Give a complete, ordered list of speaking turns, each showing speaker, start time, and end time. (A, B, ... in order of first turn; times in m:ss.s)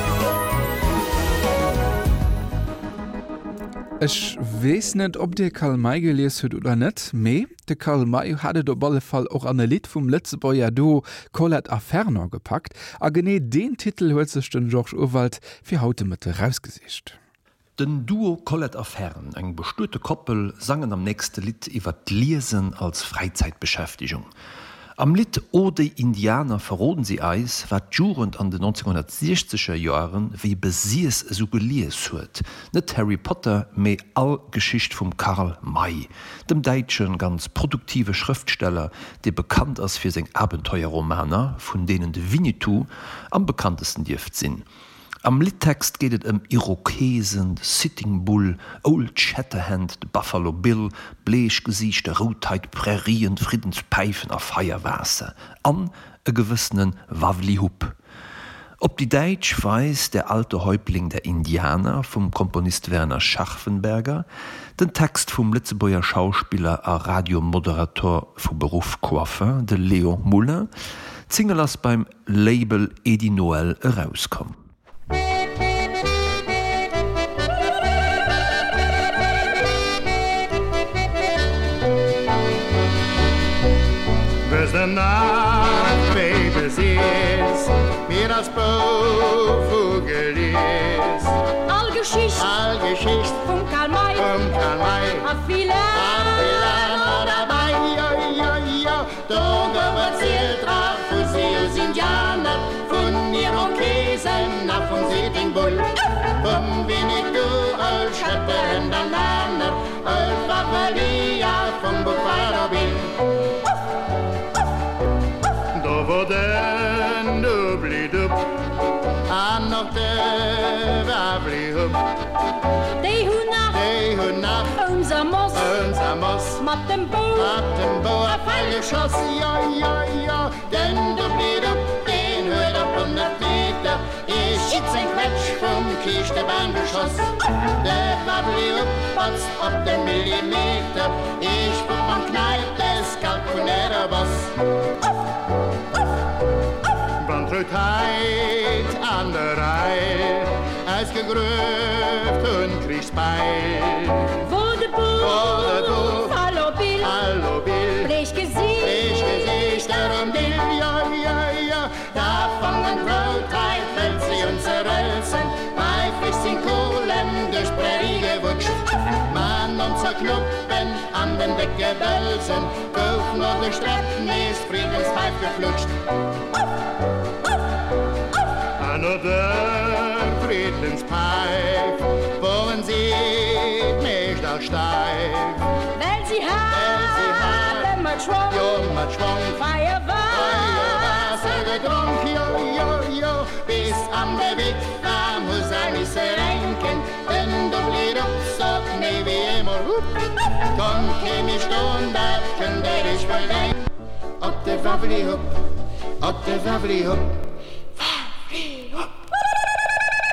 0:04.0-0:17.2 A
0:17.8-0:24.3 B
0:25.0-0:44.6 B
0:45.2-0:58.0 B
0:58.8-1:04.3 B
1:04.8-1:10.7 B
1:11.3-1:14.6 B
1:24.4-1:31.4 C
1:31.7-1:32.4 D
1:32.4-1:35.4 C
1:33.5-1:34.2 D
1:35.3-1:36.0 D
1:35.9-1:53.2 C
1:55.7-1:58.5 C
1:59.3-2:02.1 C
2:03.0-2:03.8 D
2:03.7-2:04.9 C
2:04.8-2:05.6 D
2:05.5-2:06.7 C
2:06.6-2:07.4 D
2:07.2-2:24.6 C
2:27.2-2:34.4 C
2:34.4-2:37.1 D
2:35.2-2:36.4 C
2:37.0-2:38.1 C
2:38.0-2:38.8 D
2:38.8-2:55.9 C
2:58.8-3:05.8 C
3:06.0-3:08.6 D
3:06.7-3:07.9 C
3:08.4-3:23.9 C
3:09.7-3:10.3 D
3:24.4-3:25.6 C
3:26.2-3:27.3 C